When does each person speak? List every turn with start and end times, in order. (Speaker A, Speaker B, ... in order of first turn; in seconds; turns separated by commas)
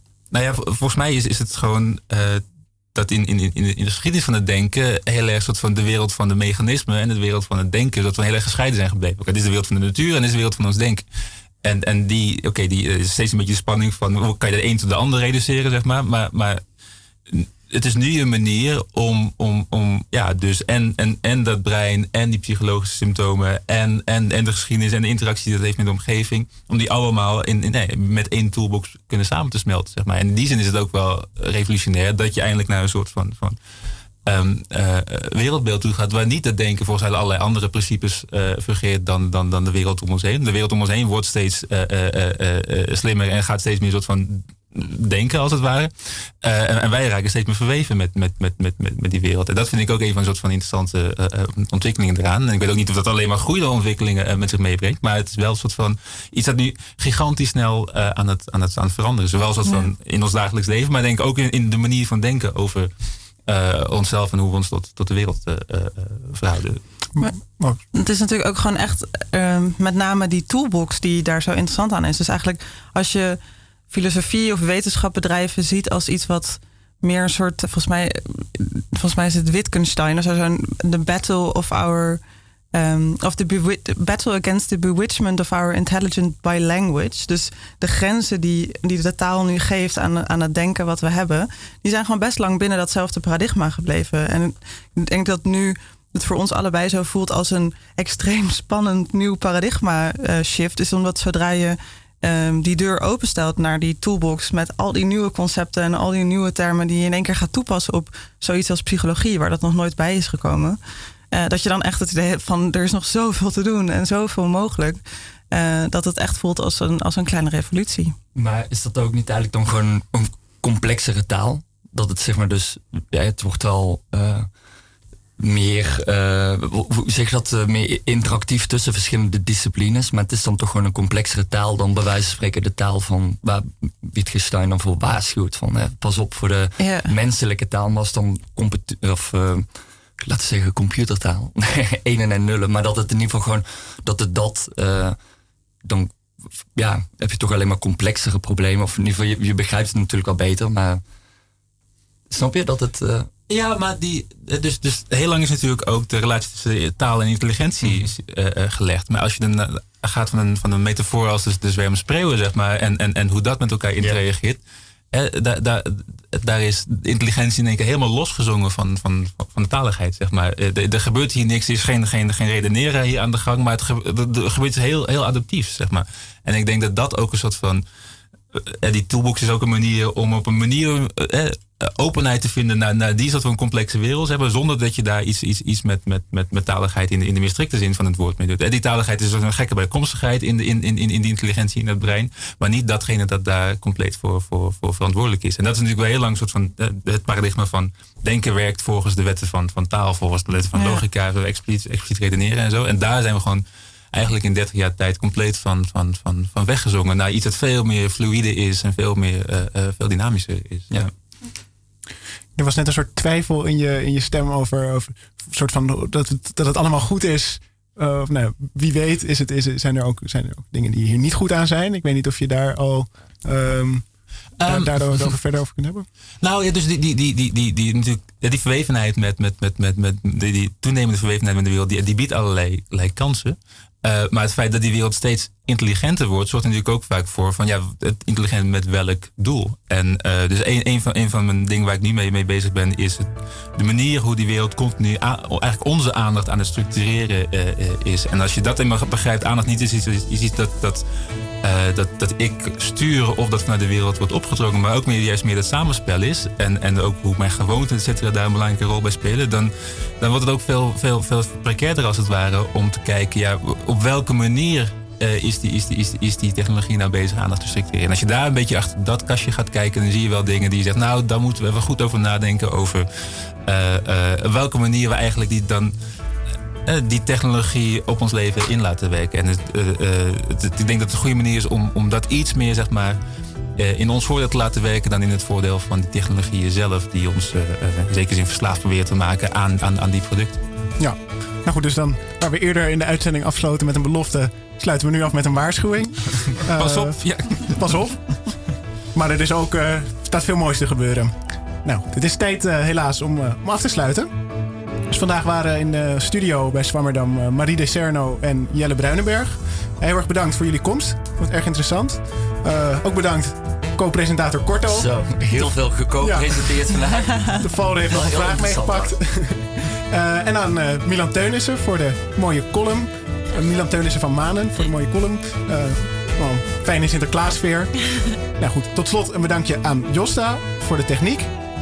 Speaker A: 0.3-2.4, Speaker A: 2.9-11.0, Speaker A: 11.6-16.6, Speaker A: 17.3-33.6, Speaker A: 34.2-62.9, Speaker A: 63.4-66.8, Speaker B: 67.2-67.8, Speaker C: 67.9-82.2, Speaker C: 82.7-110.8, Speaker C: 111.3-118.1, Speaker D: 118.3-124.5, Speaker D: 125.4-145.2, Speaker C: 136.8-137.1, Speaker D: 145.8-151.0, Speaker D: 152.3-153.3, Speaker A: 153.5-164.6, Speaker D: 157.8-158.1, Speaker A: 165.1-177.8, Speaker A: 178.5-211.1, Speaker C: 200.7-201.0, Speaker B: 212.6-226.1, Speaker A: 224.6-225.3, Speaker A: 226.4-251.0, Speaker A: 251.6-273.1, Speaker A: 273.6-275.9, Speaker A: 276.8-283.2, Speaker A: 283.8-290.6, Speaker B: 291.0-298.6, Speaker A: 296.7-298.0, Speaker B: 299.1-304.4, Speaker B: 305.1-315.1, Speaker D: 314.9-319.1, Speaker B: 316.2-316.6, Speaker B: 317.5-331.5